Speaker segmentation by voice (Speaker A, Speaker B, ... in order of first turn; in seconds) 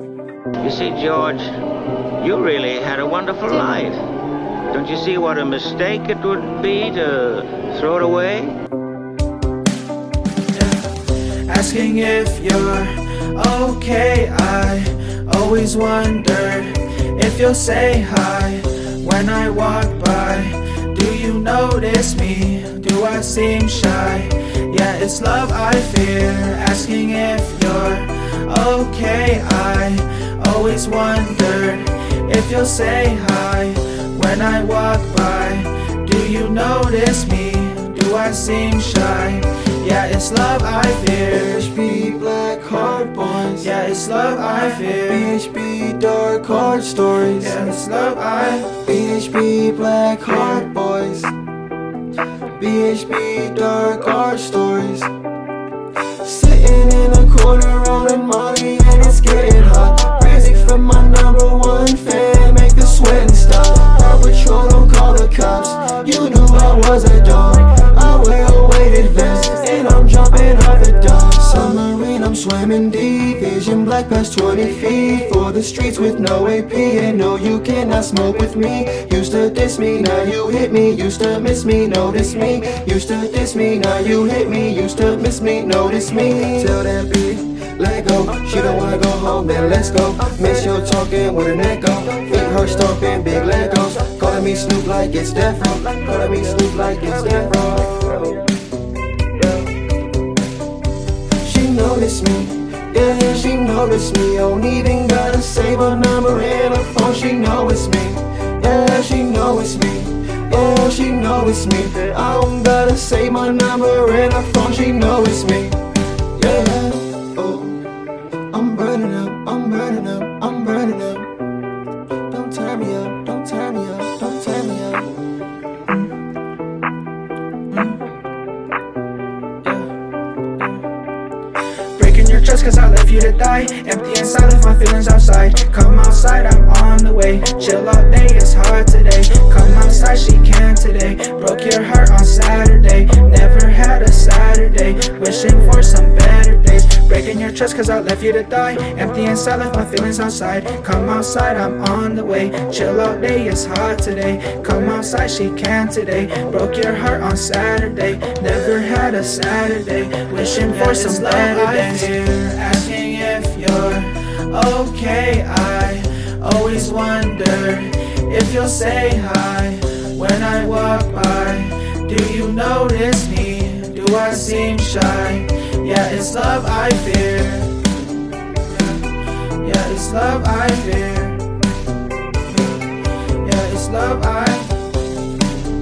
Speaker A: 0.6-1.5, 2.2-4.0, 4.7-8.6
Speaker B: 10.5-41.6, 43.6-45.3, 47.3-48.8, 50.3-50.6, 127.7-128.0, 129.6-129.9, 131.9-177.8, 178.7-179.0, 179.5-181.5, 182.5-184.8
Speaker C: 41.3-43.7, 44.8-47.6, 48.8-51.4, 52.5-55.1, 56.1-98.5, 101.4-115.8, 116.3-117.8, 118.5-121.3, 122.3-125.1